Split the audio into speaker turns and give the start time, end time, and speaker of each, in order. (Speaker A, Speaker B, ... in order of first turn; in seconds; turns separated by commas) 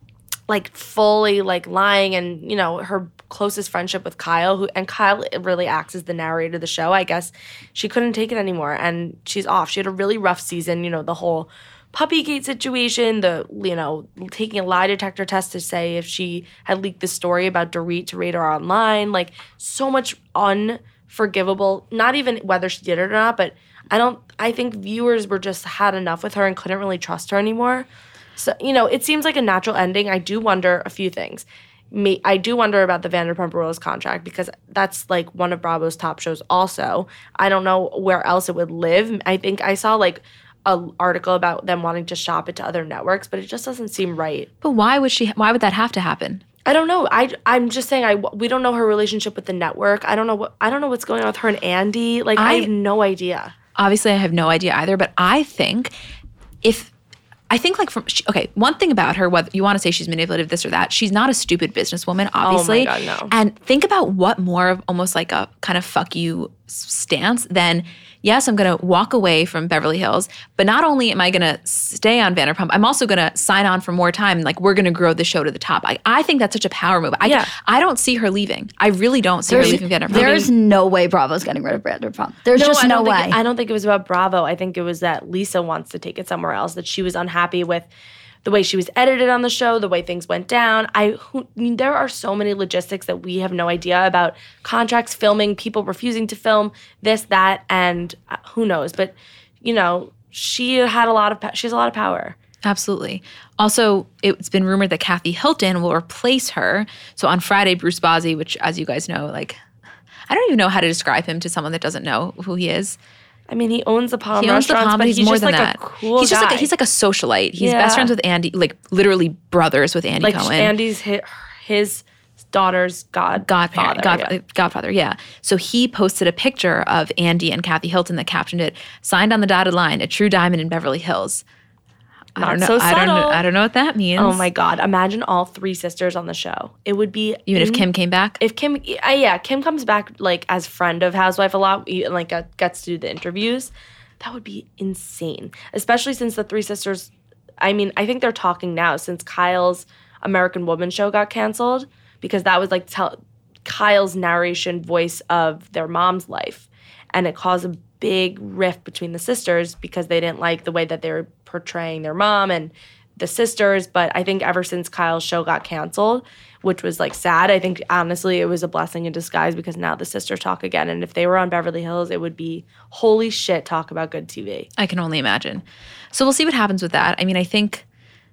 Speaker A: 0.5-44.5, Speaker B: 44.6-46.4, Speaker A: 46.6-53.5, Speaker B: 52.4-52.7, Speaker B: 53.8-55.9, Speaker B: 56.6-56.9, Speaker B: 57.5-80.5, Speaker A: 62.4-63.3, Speaker A: 77.2-77.5, Speaker A: 79.5-80.3, Speaker C: 79.5-83.4, Speaker A: 82.5-87.9, Speaker A: 88.4-102.4, Speaker B: 102.6-109.6, Speaker B: 110.3-113.0, Speaker A: 113.5-116.7, Speaker B: 114.3-120.7, Speaker A: 117.6-118.1, Speaker A: 120.2-124.4, Speaker B: 123.4-131.4, Speaker B: 132.3-134.5, Speaker A: 132.4-133.4, Speaker A: 134.2-137.9, Speaker B: 137.5-138.4, Speaker A: 138.4-174.7, Speaker B: 174.8-177.8